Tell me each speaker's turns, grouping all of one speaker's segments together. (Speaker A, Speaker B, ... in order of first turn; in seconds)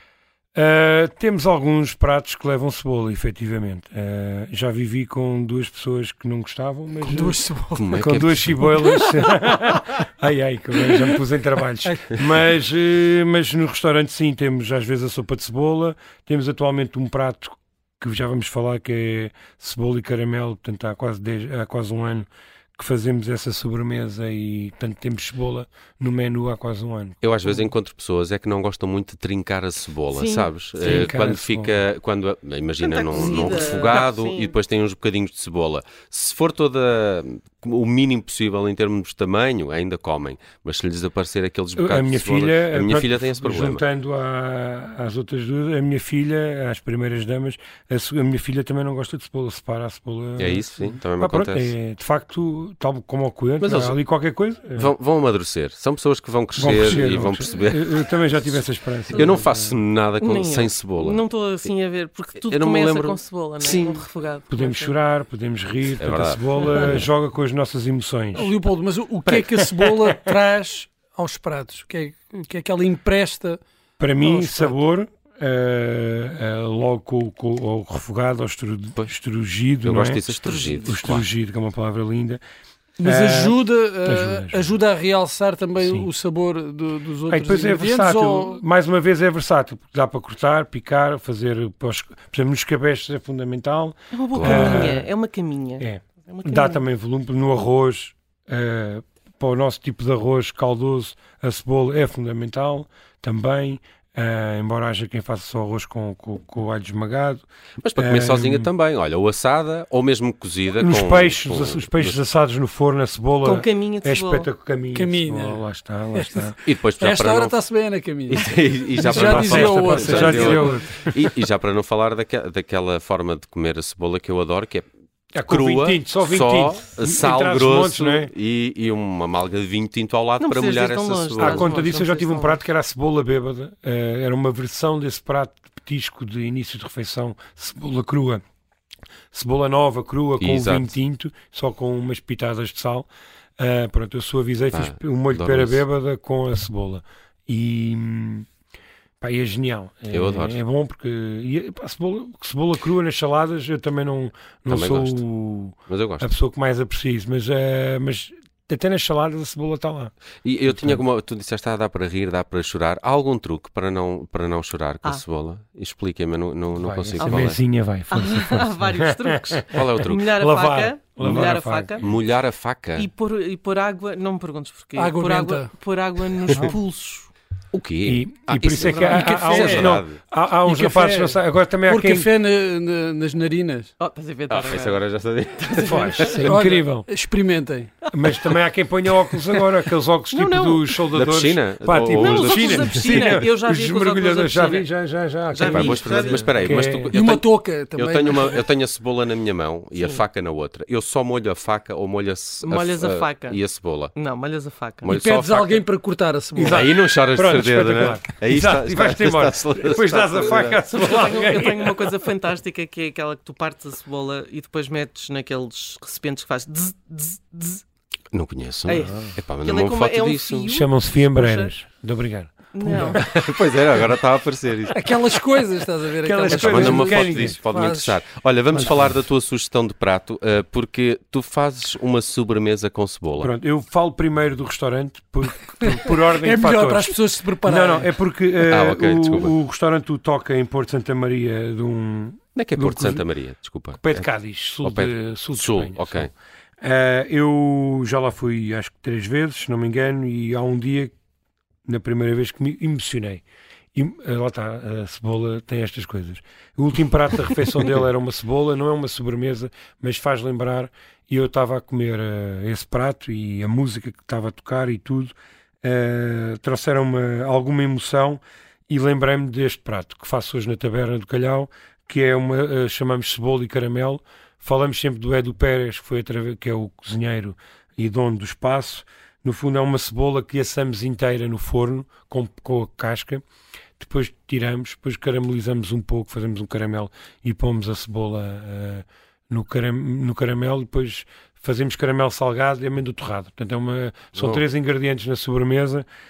Speaker A: 0.6-7.4, 8.0-27.6, 30.8-31.8, 41.8-54.9, 56.6-59.5, 64.5-68.5, 69.3-69.9, 74.0-80.3, 80.8-82.4, 83.0-84.7, 85.8-86.1, 87.3-95.1, 95.8-107.4, 108.0-108.7, 110.8-116.6, 119.0-121.1, 125.3-128.3, 131.4-138.4, 139.3-148.5, 149.2-160.1, 160.7-161.0, 166.8-169.8, 170.4-172.0, 178.1-182.3, 185.8-187.1, 188.1-197.2, 206.6-212.1, 219.0-219.4, 220.7-223.2, 226.2-227.6, 228.7-229.1, 233.4-243.2, 244.0-246.3, 246.8-251.1, 251.9-253.4, 253.9-283.4, 284.0-296.1
Speaker B: 7.1-8.1, 8.7-9.2, 68.3-73.6, 74.2-74.7, 83.0-88.6, 114.9-115.6, 116.2-120.8, 175.0-175.7, 179.1-180.0, 180.7-183.9, 186.4-187.9, 197.1-198.6, 205.1-206.8, 224.9-228.2, 236.4-238.1
Speaker C: 7.8-8.6, 27.2-43.8, 50.4-51.7, 53.6-54.0, 54.8-58.1, 59.1-61.2, 62.4-64.0, 66.0-67.1, 79.8-81.3, 94.3-94.9, 107.8-112.2, 116.7-117.6, 118.3-124.9, 125.5-131.7, 140.4-140.9, 144.7-145.8, 150.1-150.6, 154.7-155.2, 155.9-156.3, 160.4-167.6, 169.7-170.3, 172.0-173.1, 177.7-180.2, 184.5-186.5, 191.1-193.4, 195.5-204.2, 205.0-205.8, 206.7-210.8, 218.3-220.7, 223.1-225.0, 226.5-233.5, 238.6-239.5, 242.6-244.3, 244.8-246.3, 294.4-294.6
Speaker D: 30.1-31.1, 32.8-34.5, 59.1-59.5, 60.2-65.0, 80.4-81.0, 94.1-96.8, 113.4-114.5, 120.2-120.8, 130.4-132.6, 167.2-167.5, 168.1-172.1, 173.0-177.3, 178.9-179.2, 184.0-185.0, 185.7-186.5, 188.1-188.5, 190.3-191.0, 192.1-194.9, 195.5-196.6, 199.9-200.2, 202.6-203.6, 204.1-205.2, 210.9-217.8, 218.9-221.7, 222.7-223.2